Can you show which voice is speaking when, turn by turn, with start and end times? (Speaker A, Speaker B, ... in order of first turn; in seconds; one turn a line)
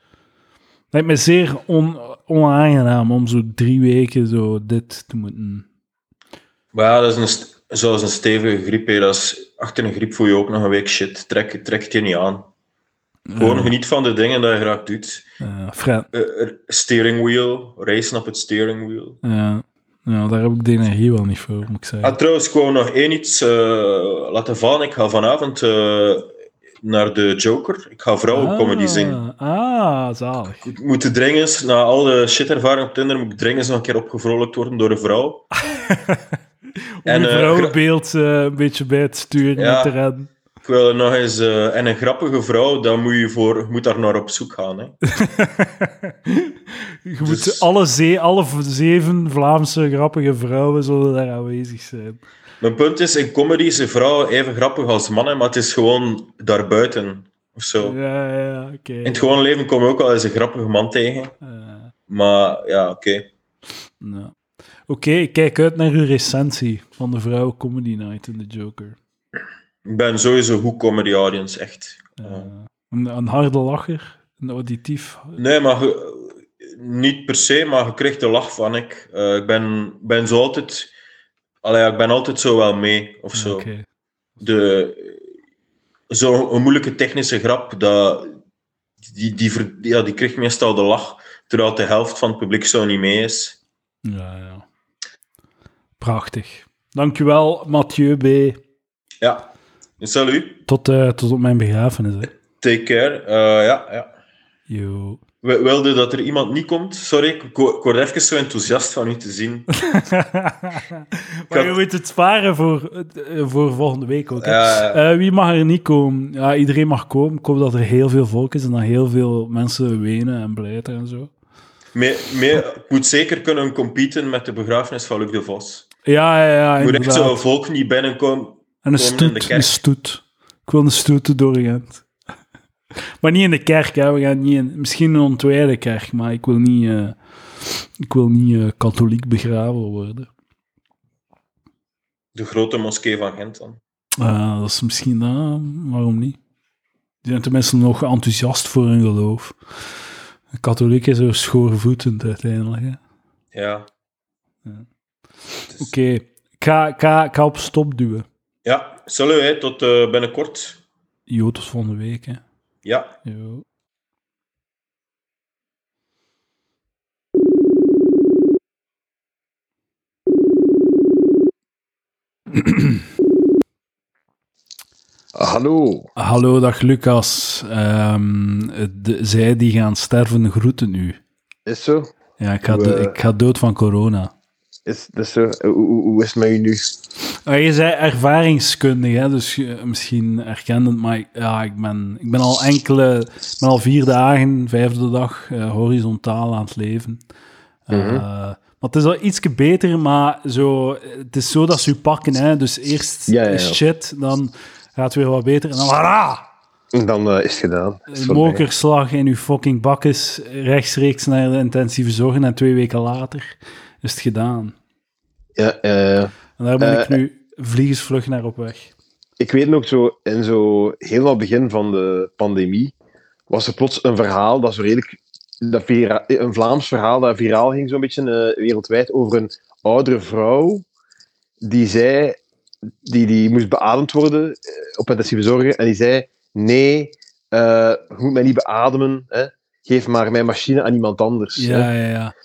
Speaker A: 0.9-5.7
Speaker B: 6.7-12.5
Speaker A: 13.3-13.7
Speaker B: 13.4-15.2
Speaker A: 15.4-16.1
Speaker B: 16.1-19.2
Speaker A: 19.2-22.1
Speaker B: 22.0-26.3
Speaker B: 26.8-29.2
Speaker A: 28.3-30.6
Speaker B: 30.6-35.5
Speaker A: 35.7-36.2
Speaker A: 37.0-40.3
Speaker B: 37.0-37.8
Speaker B: 39.5-39.9
Speaker B: 40.6-45.0
Speaker A: 45.1-52.2
Speaker B: 47.2-47.6
Speaker B: 52.6-58.0
Speaker A: 57.8-59.3
Speaker B: 59.0-61.3
Speaker A: 61.4-61.9
Speaker B: 62.1-63.3
Speaker A: 64.0-64.3
Speaker A: 64.9-69.0
Speaker B: 69.8-72.5
Speaker A: 72.2-75.4
Speaker B: 75.4-80.9
Speaker B: 81.6-83.7
Speaker A: 83.3-83.8
Speaker B: 84.4-85.2
Speaker B: 86.1-88.4
Speaker B: 89.0-93.6
Speaker A: 94.0-94.6
Speaker A: 96.0-98.6
Speaker B: 99.2-99.5
Speaker B: 100.0-100.6
Speaker A: 100.7-102.3
Speaker B: 102.6-104.1
Speaker A: 104.7-105.2
Speaker B: 105.4-109.7
Speaker A: 109.8-121.3
Speaker B: 111.5-111.7
Speaker B: 114.4-115.0
Speaker B: 121.9-125.9
Speaker A: 126.0-127.4
Speaker B: 126.8-129.8
Speaker A: 128.8-132.0
Speaker A: 133.2-140.3
Speaker B: 142.3-143.8
Speaker A: 144.2-146.4
Speaker A: 147.2-149.6
Speaker A: 150.6-153.0
Speaker B: 153.5-153.9
Speaker A: 155.7-158.3
Speaker B: 158.6-160.8
Speaker A: 161.3-162.4
Speaker B: 162.8-163.1
Speaker A: 163.2-163.6
Speaker A: 172.5-173.0
Speaker C: 175.3-176.1
Speaker A: 176.2-181.2
Speaker C: 181.7-182.1
Speaker A: 182.4-184.3
Speaker C: 182.7-183.2
Speaker C: 184.8-187.0
Speaker A: 187.4-197.2
Speaker A: 197.9-206.5
Speaker C: 197.9-198.2
Speaker C: 203.3-203.8
Speaker C: 206.9-208.6
Speaker A: 208.1-214.7
Speaker C: 215.6-217.2
Speaker A: 216.6-218.9
Speaker C: 219.4-222.9
Speaker C: 223.5-230.8
Speaker C: 231.6-232.4
Speaker C: 233.0-241.9
Speaker A: 241.6-242.3